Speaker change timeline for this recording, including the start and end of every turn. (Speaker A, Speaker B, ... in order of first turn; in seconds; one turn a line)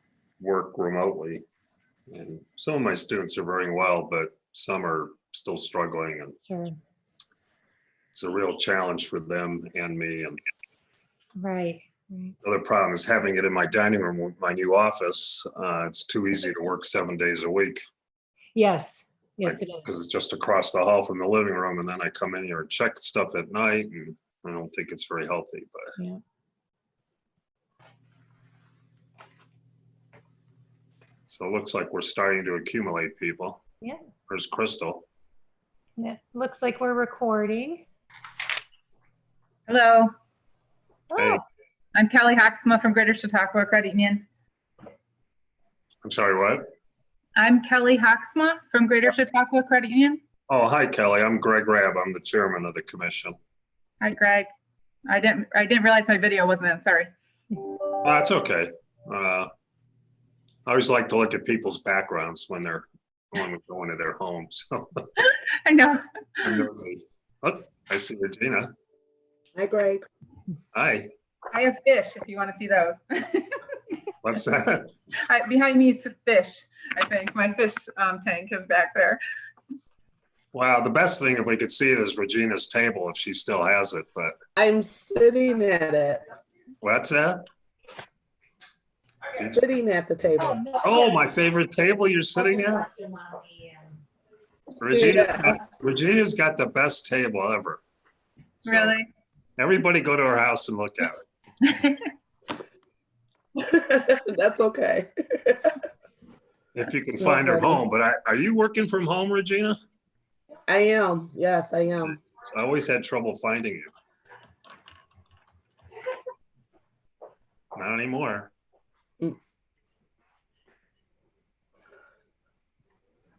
Speaker A: 0.4-1.4
Speaker A: 2.1-6.4
Speaker B: 6.5-6.8
Speaker A: 8.1-10.4
Speaker B: 11.4-12.3
Speaker A: 12.4-17.8
Speaker B: 18.6-19.9
Speaker A: 19.4-25.9
Speaker A: 31.3-33.6
Speaker A: 34.3-35.1
Speaker B: 36.0-37.9
Speaker C: 39.7-40.1
Speaker A: 41.1-41.4
Speaker B: 41.1-41.4
Speaker C: 42.0-44.3
Speaker A: 46.0-46.6
Speaker C: 47.4-50.2
Speaker A: 50.5-53.4
Speaker C: 54.0-54.5
Speaker C: 55.1-57.1
Speaker A: 58.0-59.5
Speaker A: 60.7-65.1
Speaker C: 65.2-66.7
Speaker A: 66.4-68.7
Speaker D: 69.6-70.0
Speaker A: 70.7-71.1
Speaker C: 71.5-73.6
Speaker A: 74.2-74.9
Speaker C: 75.3-79.2
Speaker A: 80.5-84.4
Speaker D: 84.6-86.2
Speaker A: 86.8-87.5
Speaker A: 89.4-89.6
Speaker D: 89.5-90.6
Speaker B: 90.4-91.2
Speaker A: 90.8-92.9
Speaker B: 92.6-93.8
Speaker A: 94.8-97.8
Speaker D: 94.9-95.6
Speaker A: 98.6-99.0
Speaker C: 98.7-99.0
Speaker A: 99.6-101.2
Speaker C: 101.6-102.1
Speaker D: 103.6-105.8
Speaker A: 106.7-109.8
Speaker D: 107.2-107.8
Speaker D: 110.7-112.2
Speaker A: 112.2-113.9
Speaker A: 117.8-118.5